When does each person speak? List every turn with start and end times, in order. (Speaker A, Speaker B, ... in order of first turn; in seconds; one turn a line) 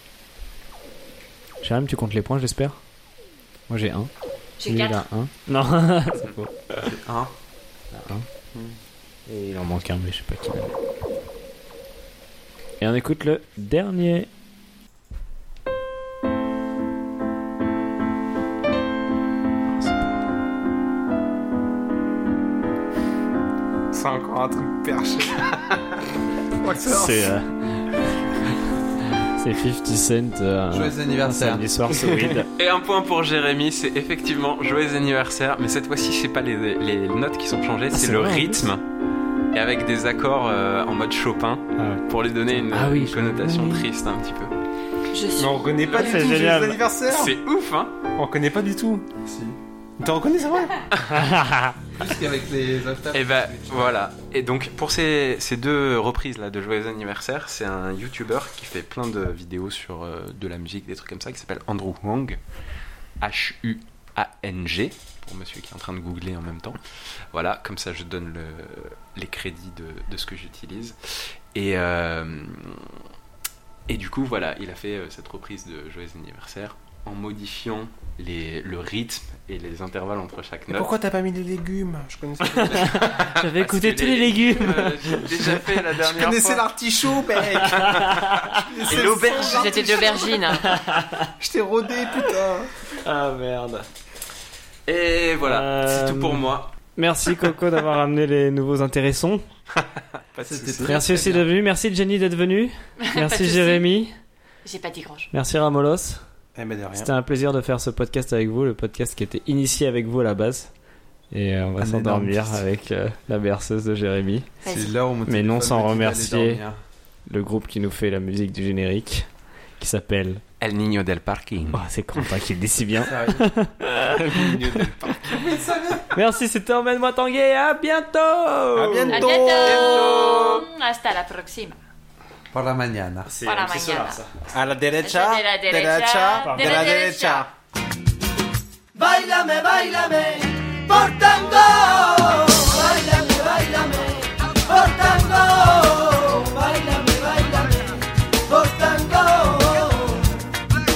Speaker A: 1.6-2.8
Speaker A: 3.7-4.1
Speaker B: 4.6-5.0
Speaker A: 4.6-6.5
Speaker C: 6.8-7.3
Speaker A: 7.9-8.2
Speaker A: 9.3-10.8
Speaker A: 12.8-14.3
Speaker A: 19.7-20.2
Speaker D: 23.9-25.5
Speaker D: 26.7-27.1
Speaker A: 26.8-28.0
Speaker A: 29.3-32.5
Speaker C: 30.7-31.7
Speaker E: 32.5-38.8
Speaker A: 37.9-38.7
Speaker E: 39.5-44.5
Speaker A: 41.8-43.9
Speaker B: 45.1-46.4
Speaker D: 45.3-47.4
Speaker A: 45.9-46.8
Speaker E: 47.1-47.9
Speaker D: 48.1-49.0
Speaker C: 49.2-49.6
Speaker D: 50.0-50.8
Speaker E: 50.9-51.2
Speaker A: 51.1-51.7
Speaker C: 52.0-54.0
Speaker E: 53.1-62.4
Speaker E: 63.2-66.8
Speaker E: 67.3-71.0
Speaker E: 71.5-73.0
Speaker E: 73.9-80.9
Speaker D: 80.7-83.0
Speaker A: 82.4-85.5
Speaker E: 82.8-86.7
Speaker D: 86.0-90.5
Speaker A: 87.6-88.6
Speaker E: 87.7-90.4
Speaker B: 89.2-90.7
Speaker A: 90.6-91.3
Speaker D: 91.4-92.7
Speaker A: 93.0-93.9
Speaker E: 94.8-96.7
Speaker A: 95.4-99.4
Speaker D: 100.4-101.4
Speaker C: 100.4-101.2
Speaker A: 100.8-104.1
Speaker B: 103.0-103.8
Speaker B: 104.6-105.3
Speaker A: 105.3-106.2
Speaker D: 106.5-107.1
Speaker A: 106.9-110.7
Speaker A: 111.3-114.5
Speaker C: 111.8-112.6
Speaker B: 114.6-114.9
Speaker C: 114.7-116.8
Speaker A: 115.3-116.6
Speaker A: 117.3-119.3
Speaker A: 119.8-120.4
Speaker E: 120.6-121.8
Speaker A: 121.7-124.9
Speaker C: 123.0-123.5
Speaker D: 124.3-125.4
Speaker C: 125.3-126.2
Speaker A: 126.1-129.4
Speaker D: 128.7-130.6
Speaker B: 129.1-131.8
Speaker C: 132.5-133.3
Speaker A: 133.3-134.3
Speaker B: 133.4-134.2
Speaker D: 134.5-137.5
Speaker B: 135.0-137.5
Speaker A: 136.4-136.8
Speaker D: 141.3-141.8
Speaker D: 144.8-145.8